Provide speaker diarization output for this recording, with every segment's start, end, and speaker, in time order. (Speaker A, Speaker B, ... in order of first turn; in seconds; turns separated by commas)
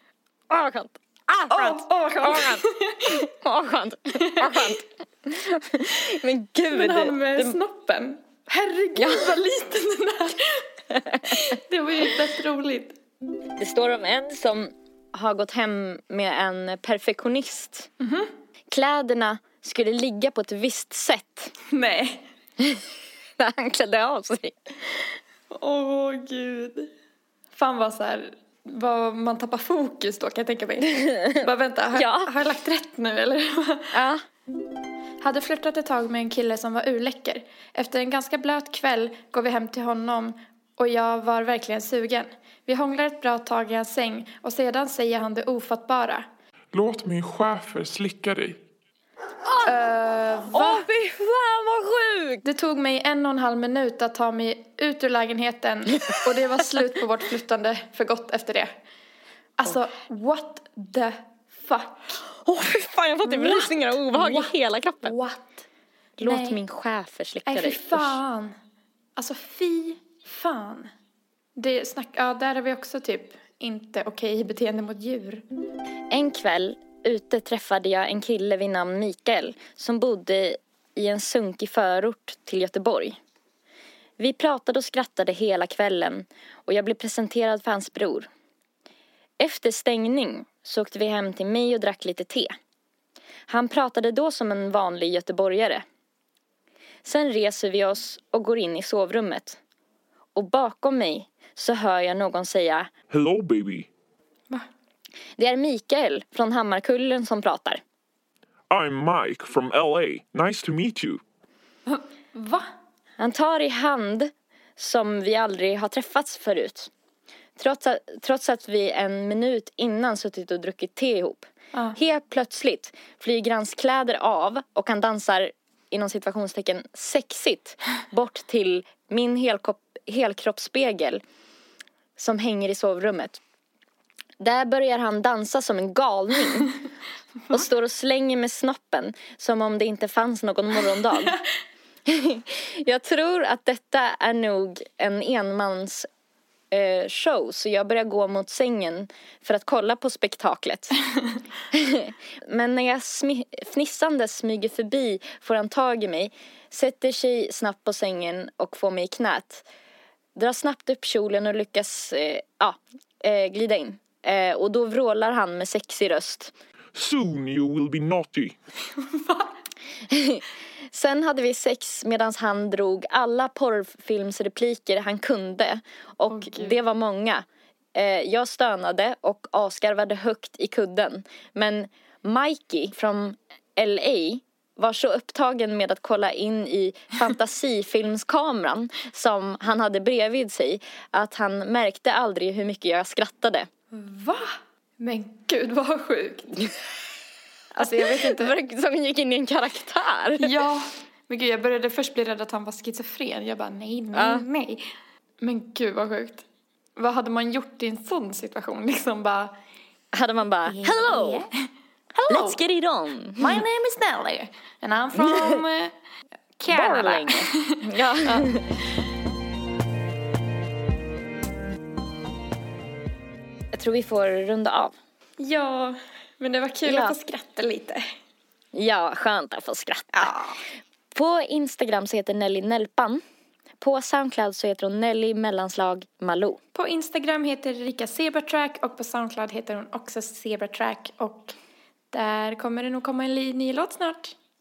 Speaker A: 0.5-7.6, Speaker B: 1.5-3.2, Speaker B: 4.2-4.6, Speaker B: 6.7-10.7, Speaker A: 8.9-9.3, Speaker A: 10.9-11.4, Speaker B: 11.3-12.9, Speaker A: 13.6-17.9, Speaker B: 18.0-18.3, Speaker A: 18.7-21.5, Speaker B: 21.6-22.2, Speaker A: 23.4-25.0, Speaker B: 25.5-26.9, Speaker B: 27.5-33.9, Speaker A: 31.9-32.3, Speaker A: 33.9-34.2, Speaker B: 35.2-46.3, Speaker C: 46.7-48.6, Speaker A: 49.4-49.7, Speaker B: 49.6-50.9, Speaker A: 50.5-52.4, Speaker B: 52.4-58.7, Speaker B: 59.6-62.2, Speaker A: 62.5-65.1, Speaker B: 63.2-64.5, Speaker B: 65.0-65.5, Speaker B: 66.2-66.6, Speaker A: 66.2-68.2, Speaker B: 67.5-68.5, Speaker B: 69.2-70.9, Speaker B: 71.5-75.4, Speaker A: 76.1-83.2, Speaker A: 84.2-88.3, Speaker A: 89.4-92.5, Speaker A: 93.5-95.8, Speaker A: 97.0-99.6, Speaker A: 100.3-102.9, Speaker C: 103.1-103.9, Speaker A: 105.4-107.8, Speaker C: 108.7-111.2, Speaker B: 111.9-112.7, Speaker A: 113.2-116.9, Speaker A: 117.6-131.2, Speaker A: 132.2-133.4, Speaker A: 134.4-136.7, Speaker A: 137.5-141.3, Speaker A: 142.1-146.1, Speaker A: 146.7-150.9, Speaker A: 151.7-159.7, Speaker A: 160.3-166.5, Speaker C: 166.9-168.6, Speaker B: 168.9-169.5, Speaker A: 170.1-193.7, Speaker B: 176.3-176.8, Speaker B: 193.9-196.7, Speaker B: 197.7-198.5, Speaker A: 197.8-200.5, Speaker B: 200.4-204.8, Speaker A: 204.1-204.4, Speaker B: 205.4-209.5, Speaker A: 210.1-211.5, Speaker B: 210.7-211.6, Speaker B: 212.1-212.6, Speaker A: 212.3-213.6, Speaker B: 213.4-215.9, Speaker A: 215.3-215.6, Speaker B: 216.6-218.6, Speaker A: 216.7-218.6, Speaker A: 223.7-224.9, Speaker B: 225.4-228.1, Speaker A: 226.8-227.1, Speaker A: 228.7-230.3, Speaker B: 230.1-230.6, Speaker A: 231.1-233.2, Speaker A: 233.8-236.6, Speaker B: 236.7-241.6, Speaker B: 242.1-244.3